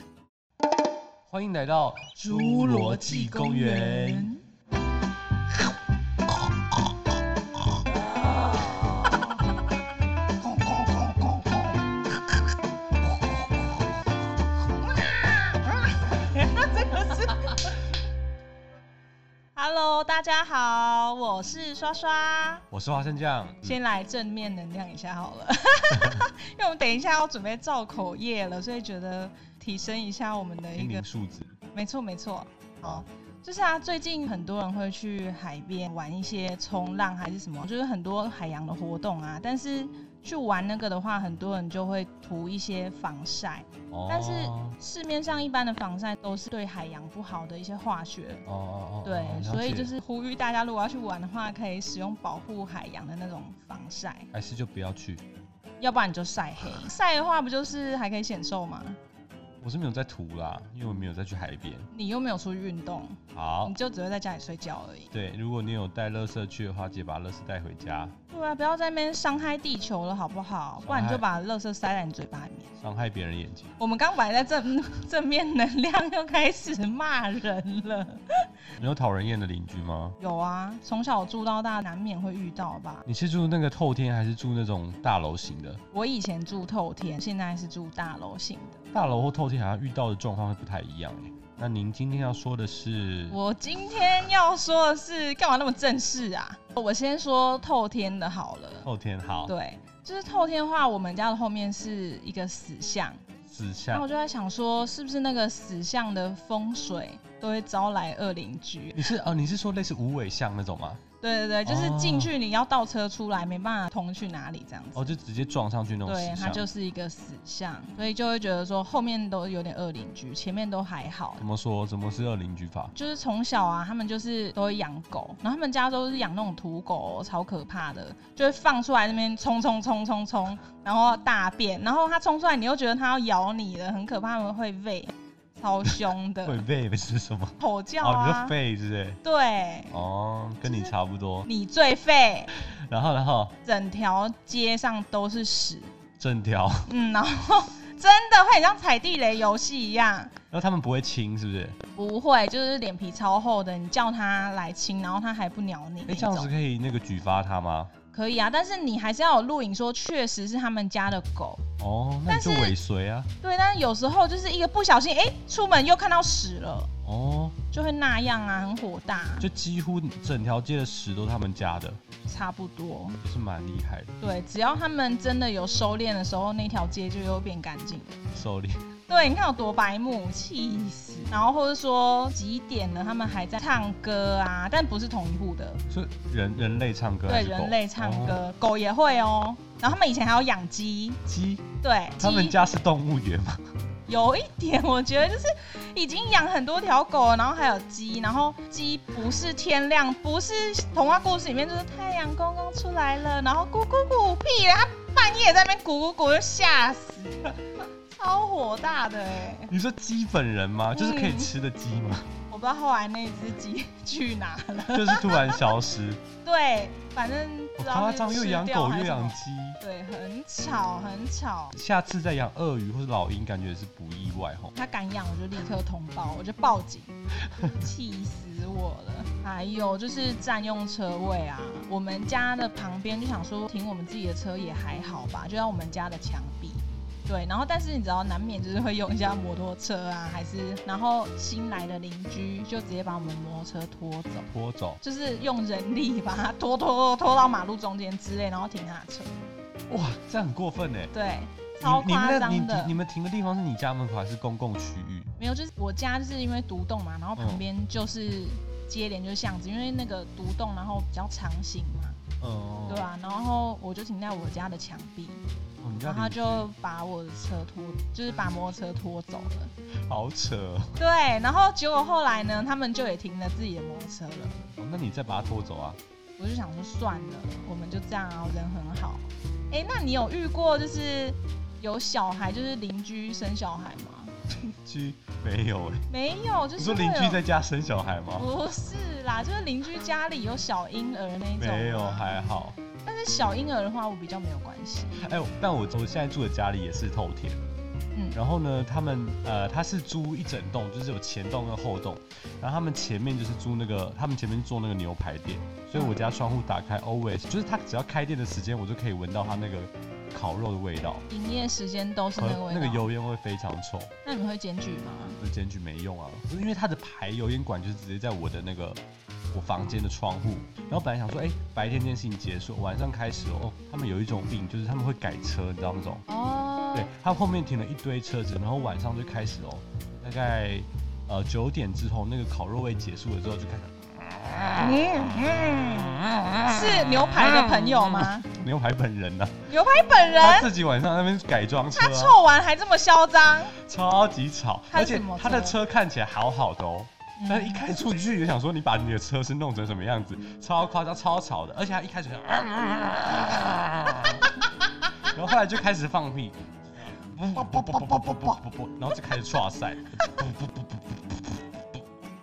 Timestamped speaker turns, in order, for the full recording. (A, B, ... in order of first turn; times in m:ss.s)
0:01.3-0:04.3 A
0:02.2-0:04.4 B
0:16.1-0:17.7 B
0:19.6-0:22.6 B
0:22.7-0:23.8 A
0:23.6-0:31.0 B
0:25.9-0:26.2 A
0:30.8-0:31.5 A
0:31.7-0:48.4 B
0:43.9-0:44.8 A
0:48.4-0:49.9 A
0:49.0-0:54.3 B
0:54.3-0:55.2 A
0:55.8-0:59.0 B
0:59.6-1:01.9 A
1:01.9-1:05.1 B
1:03.3-1:03.7 A
1:05.1-1:08.1 A
1:08.3-1:12.7 B
1:10.8-1:11.2 A
1:12.8-1:13.7 A
1:13.8-1:18.5 B
1:18.7-1:20.2 A
1:20.2-1:23.0 B
1:23.0-1:25.8 A
1:25.9-1:28.8 B
1:28.9-1:33.4 A
1:33.3-1:38.9 B
1:38.8-1:39.5 A
1:39.4-1:43.2 B
1:43.5-1:44.0 A
1:43.9-1:49.1 B
1:48.9-1:51.0 A
1:51.2-1:55.1 B
1:51.6-1:52.3 A
1:54.9-1:56.6 A
1:56.0-2:01.4 B
2:01.4-2:02.9 A
2:02.9-2:16.6 B
2:16.4-2:19.2 A
2:17.6-2:18.6 B
2:19.2-2:19.9 B
2:19.9-2:21.5 A
2:20.6-2:20.9 B
2:21.4-2:22.5 B
2:22.6-2:23.5 A
2:23.6-2:25.9 B
2:26.2-2:26.9 A
2:26.8-2:30.3 B
2:30.5-2:31.8 A
2:31.9-2:36.5 B
2:36.0-2:37.9 A
2:38.1-2:41.6 B
2:41.8-2:43.3 A
2:42.3-2:42.7 B
2:43.4-2:46.9 B
2:47.0-2:47.6 A
2:47.7-2:49.5 B
2:49.4-2:52.0 A
2:52.2-2:53.2 B
2:53.2-2:54.1 A
2:54.2-2:58.2 B
2:58.3-2:58.8 A
2:59.1-3:05.8 B
3:05.9-3:08.4 A
3:07.3-3:11.2 B
3:11.2-3:11.6 A
3:11.8-3:12.6 B
3:12.2-3:13.6 A
3:14.1-3:29.7 B
3:29.7-3:32.3 A
3:30.9-3:31.5 B
3:32.5-3:35.6 B
3:34.8-3:36.2 A
3:36.4-3:41.8 B
3:37.8-3:39.8 A
3:41.7-3:44.7 A
3:44.7-4:09.3 B
4:04.5-4:05.0 A
4:09.9-4:11.1 A
4:11.1-4:12.9 B
4:11.8-4:15.3 A
4:15.4-4:22.2 B
4:17.4-4:17.6 A
4:22.4-4:23.0 A
4:22.9-4:25.4 B
4:25.8-4:26.7 A
4:26.0-4:29.7 B
4:30.1-4:30.9 A
4:31.0-4:34.7 B
4:34.8-4:36.0 A
4:36.4-4:44.4 B
4:44.8-4:46.0 A
4:46.1-4:47.4 B
4:46.8-4:48.5 A
4:48.4-4:52.4 B
4:51.6-4:52.8 A
4:53.0-4:55.2 B
4:55.2-4:57.6 A
4:58.3-5:11.2 A
5:11.3-5:13.1 B
5:12.4-5:14.1 A
5:14.2-5:15.4 B
5:15.4-5:26.2 A
5:26.3-5:27.1 B
5:26.9-5:35.2 A
5:34.8-5:38.5 B
5:36.3-5:39.6 A
5:39.7-5:40.7 B
5:40.4-5:42.4 A
5:42.0-5:43.8 B
5:43.7-6:02.0 A
5:44.9-5:45.8 B
5:47.4-5:47.8 B
5:57.9-5:58.5 B